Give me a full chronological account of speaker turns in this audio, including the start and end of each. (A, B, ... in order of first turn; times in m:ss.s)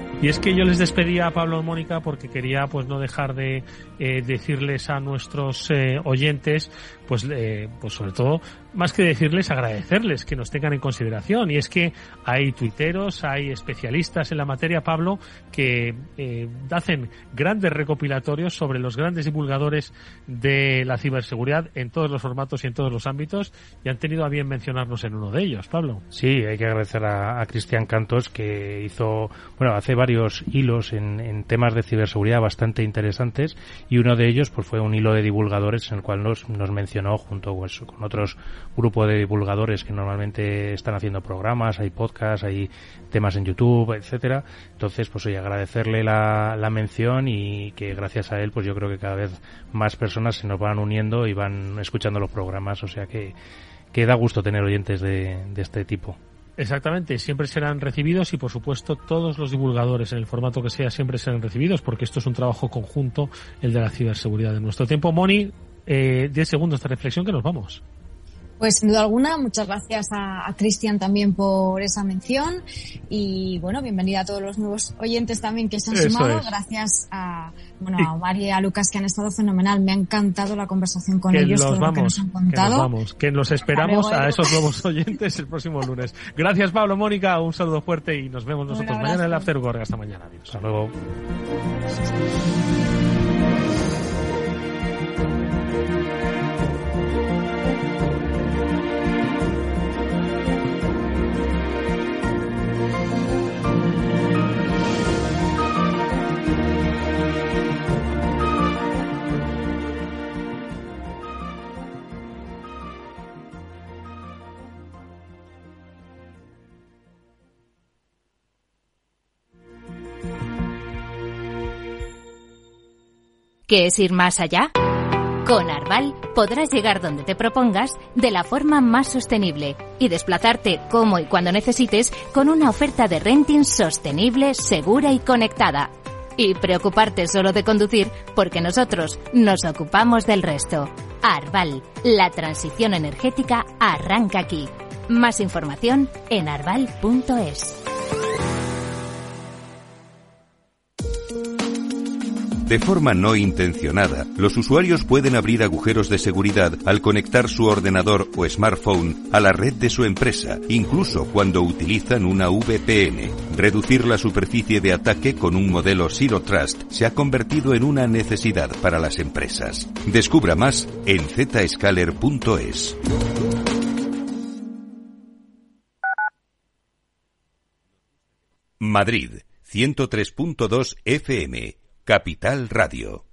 0:00.2-0:26.0 A
0:26.1-0:53.4 B
0:53.9-0:56.2 B
0:56.6-1:07.8 A
1:08.6-1:22.9 C
1:15.9-1:16.5 A
1:21.3-1:30.6 A
1:23.7-1:24.6 C
1:28.7-1:29.5 C
1:30.5-1:31.0 B
2:03.7-2:04.7 D
2:05.4-2:27.8 D
2:32.6-2:53.0 E
2:58.8-3:03.2 E